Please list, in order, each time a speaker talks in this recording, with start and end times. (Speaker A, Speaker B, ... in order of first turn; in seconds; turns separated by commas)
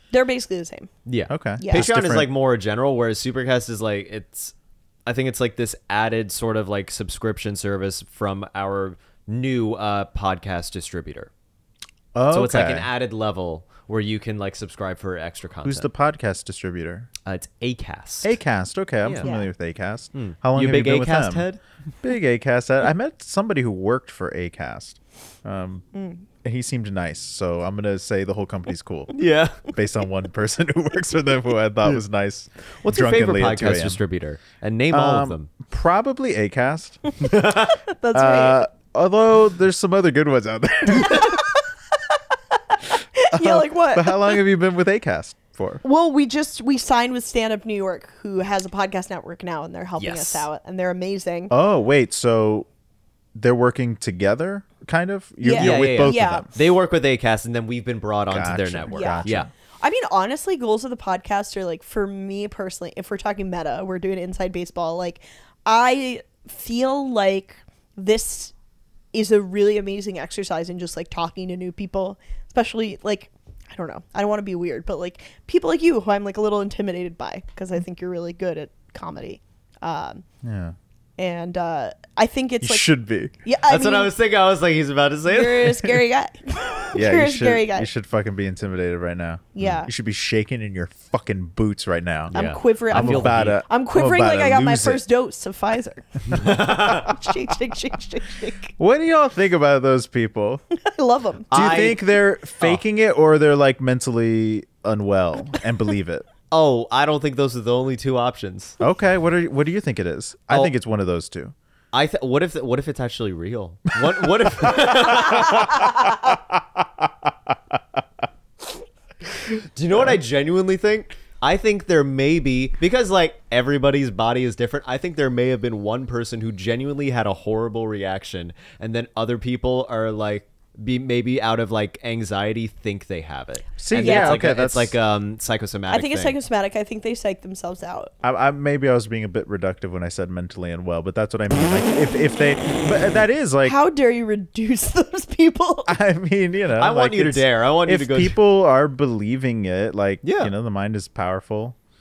Speaker A: 0.1-0.9, Speaker B: 1.1-4.5, Speaker C: 1.3-2.3, Speaker A: 1.6-1.9, Speaker B: 5.0-11.3, Speaker C: 12.1-12.9, Speaker B: 12.3-15.9, Speaker C: 15.6-17.1, Speaker B: 17.2-18.3, Speaker C: 18.2-21.5, Speaker B: 19.0-19.3, Speaker A: 19.2-19.5, Speaker B: 20.1-21.6, Speaker C: 22.0-25.9, Speaker A: 25.9-26.2, Speaker C: 26.4-34.0, Speaker B: 29.1-29.6, Speaker B: 32.8-35.5, Speaker C: 34.9-37.2, Speaker B: 37.2-37.7, Speaker A: 37.8-38.6, Speaker C: 38.1-41.4, Speaker A: 41.0-44.4, Speaker C: 43.3-45.8, Speaker A: 45.8-51.5, Speaker B: 50.0-50.4, Speaker C: 51.5-52.7, Speaker C: 53.3-56.5, Speaker A: 55.4-56.5, Speaker B: 55.5-59.5, Speaker C: 58.3-59.5, Speaker A: 58.9-59.2, Speaker A: 59.8-68.5, Speaker A: 69.1-80.2, Speaker C: 80.4-80.8, Speaker A: 81.2-82.9, Speaker C: 82.6-83.3, Speaker A: 83.4-84.1, Speaker B: 83.7-86.0, Speaker A: 85.3-87.9, Speaker C: 86.9-92.3, Speaker A: 89.5-89.9, Speaker B: 92.3-93.6, Speaker A: 92.3-98.7, Speaker C: 92.9-95.0, Speaker B: 96.3-97.1, Speaker C: 98.8-100.6, Speaker A: 100.7-101.5, Speaker B: 101.5-102.8, Speaker C: 101.5-106.2, Speaker B: 106.5-108.8, Speaker C: 108.8-111.5, Speaker B: 111.9-115.9, Speaker C: 114.7-117.5, Speaker A: 115.7-116.2, Speaker B: 119.4-136.4, Speaker C: 119.9-120.2, Speaker C: 133.8-134.9, Speaker A: 134.0-134.4, Speaker A: 135.9-138.1, Speaker C: 138.2-143.7, Speaker A: 143.6-145.9, Speaker C: 145.9-151.8, Speaker B: 146.8-148.4, Speaker B: 150.2-150.5